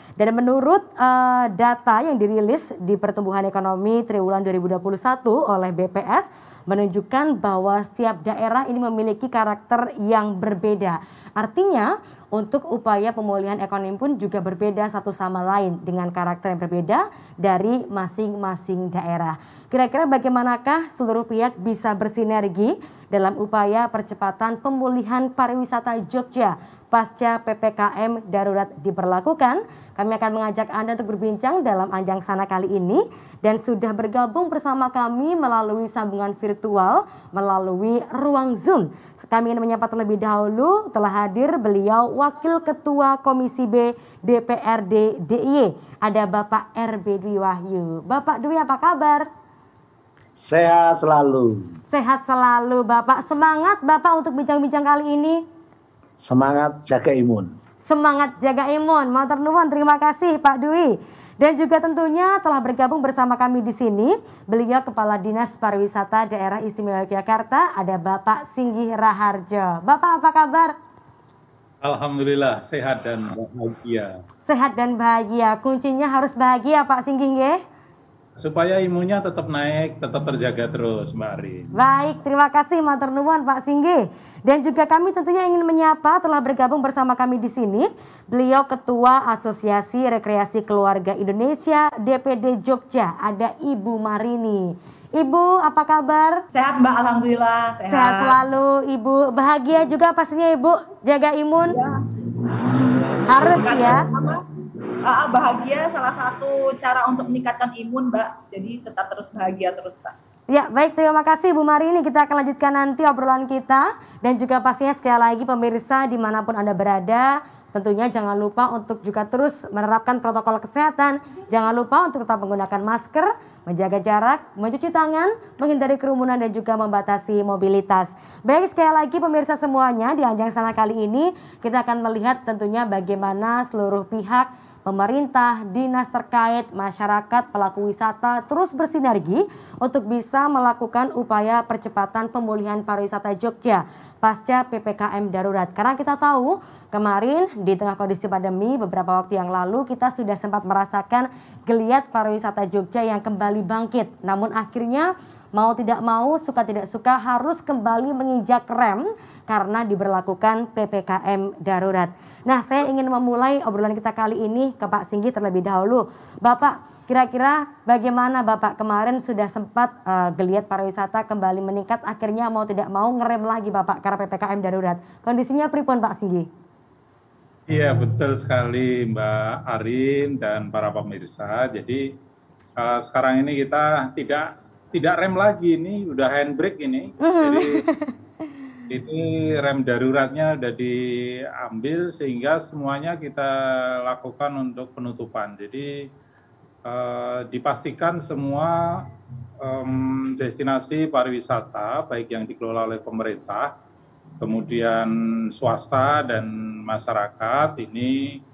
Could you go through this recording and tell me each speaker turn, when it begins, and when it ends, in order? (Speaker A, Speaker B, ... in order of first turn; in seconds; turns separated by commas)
Speaker A: 0.2-49.3, Speaker B: 50.4-51.7, Speaker A: 51.9-55.4, Speaker B: 56.2-57.5, Speaker A: 57.9-70.7, Speaker C: 71.8-74.2, Speaker A: 74.5-77.6, Speaker C: 78.4-81.7, Speaker A: 81.7-96.4, Speaker D: 96.5-98.4, Speaker A: 97.9-101.8, Speaker D: 101.7-104.5, Speaker A: 103.3-104.1, Speaker D: 105.0-110.2, Speaker A: 110.5-176.5, Speaker C: 177.7-182.1, Speaker C: 182.8-187.8, Speaker A: 187.2-188.1, Speaker C: 188.9-196.0, Speaker C: 196.8-199.1, Speaker C: 199.6-203.7, Speaker C: 204.4-208.4